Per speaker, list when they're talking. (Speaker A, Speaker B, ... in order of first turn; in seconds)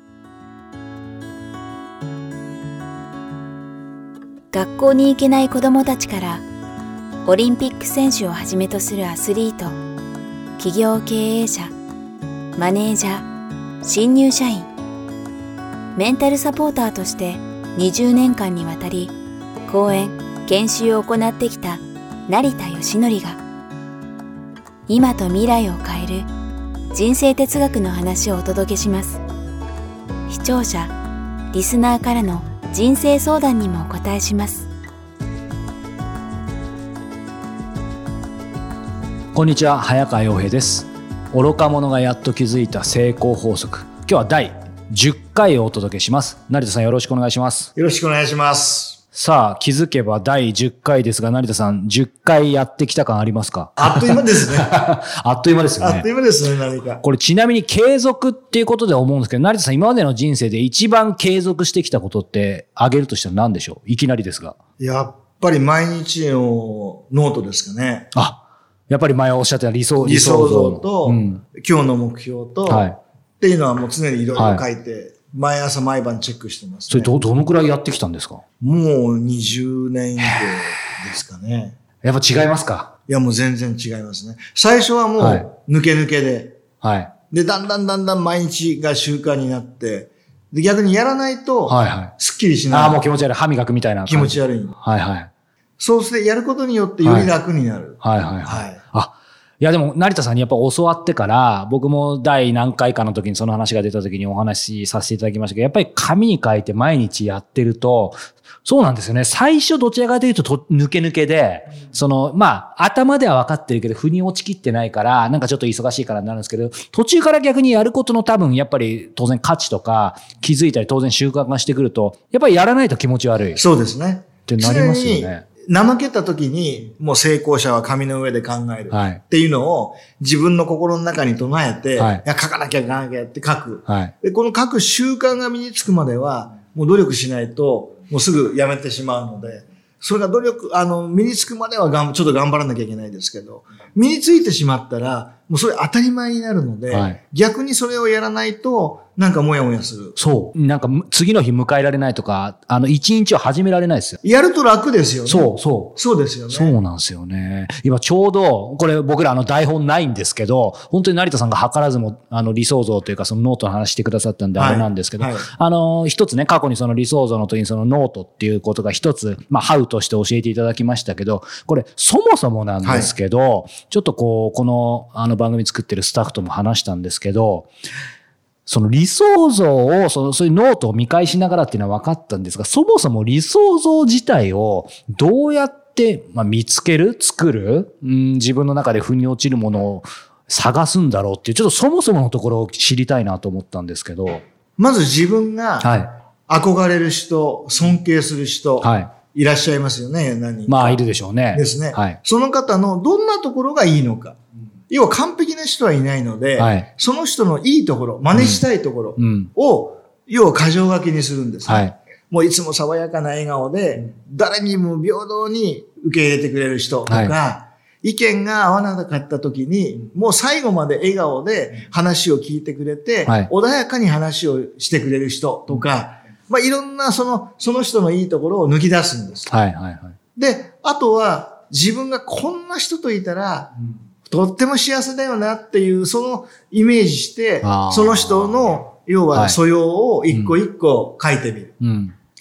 Speaker A: 4.5-6.4, 7.2-9.8, 10.6-11.7, 12.6-13.3, 13.8-14.7, 15.9-19.1, 19.7-23.4, 24.9-26.3, 26.9-29.2, 30.3-30.9, 31.5-34.7
Speaker B: 39.3-47.7, 49.1-56.1, 57.0-64.5, 68.1-71.4, 72.7-73.0, 74.4-74.6, 76.9-78.4, 80.3-80.8, 82.0-82.9, 85.2-85.5, 86.8-87.1, 91.7-92.1, 92.7-95.3, 97.0-97.3, 98.0-123.6, 124.5-125.4, 128.9-129.2, 132.0-132.2, 133.9-134.1, 146.9-147.2, 150.2-154.2, 155.3-156.0, 156.5-177.7, 178.7-194.4, 195.8-196.1, 198.8-199.1, 200.7-202.2, 206.6-206.9, 208.3-208.6, 209.2-209.5, 211.7-212.0, 217.1-217.3, 229.5-230.2, 237.6-238.8, 240.3-240.6, 241.8-242.2
Speaker C: 47.8-49.0, 53.8-54.7, 55.8-57.0, 64.8-68.1, 70.0-77.2, 78.6-81.8, 83.1-86.6, 87.3-93.0, 94.1-94.8, 95.8-98.8, 123.6-150.1, 154.2-156.8, 164.6-165.5, 172.8-173.1, 194.8-195.9, 196.5-201.0, 201.5-204.4, 204.9-229.5, 230.4-233.7, 234.2-241.8